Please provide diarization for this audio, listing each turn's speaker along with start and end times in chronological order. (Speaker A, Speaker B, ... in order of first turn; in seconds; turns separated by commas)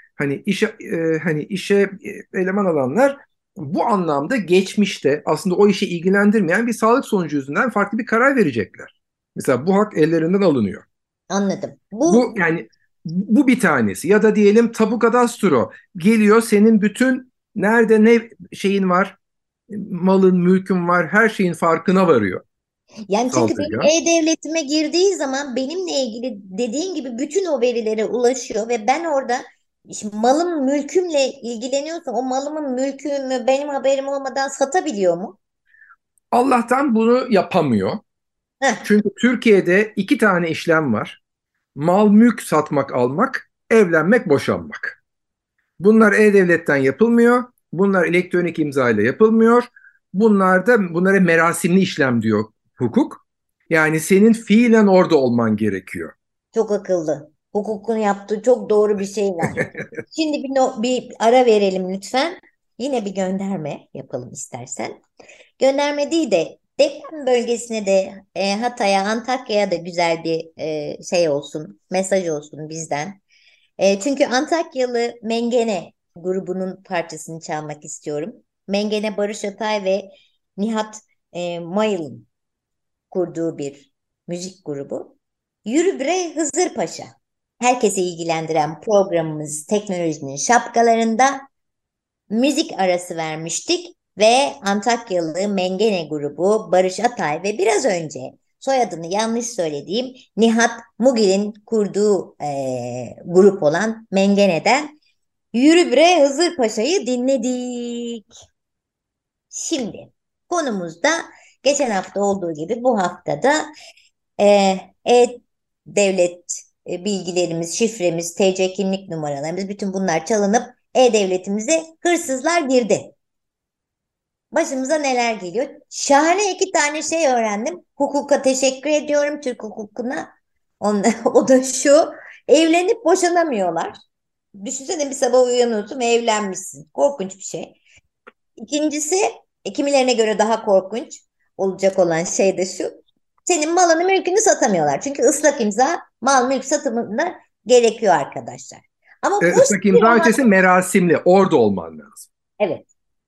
Speaker A: 0.2-10.8, Speaker B: 11.3-12.4, Speaker A: 12.1-19.2, Speaker A: 19.7-22.4, Speaker B: 23.1-35.4, Speaker A: 23.3-23.9, Speaker A: 36.3-38.0, Speaker A: 38.8-41.2, Speaker A: 41.7-45.0, Speaker A: 45.8-56.1, Speaker B: 56.5-65.0, Speaker B: 65.6-73.2, Speaker B: 73.8-82.3, Speaker B: 83.1-91.4, Speaker B: 92.3-104.9, Speaker B: 105.5-108.2, Speaker B: 109.5-113.7, Speaker B: 114.4-123.1, Speaker B: 124.5-130.3, Speaker B: 130.8-133.9, Speaker B: 134.6-137.8, Speaker B: 138.6-150.4, Speaker A: 149.4-152.3, Speaker B: 152.6-152.9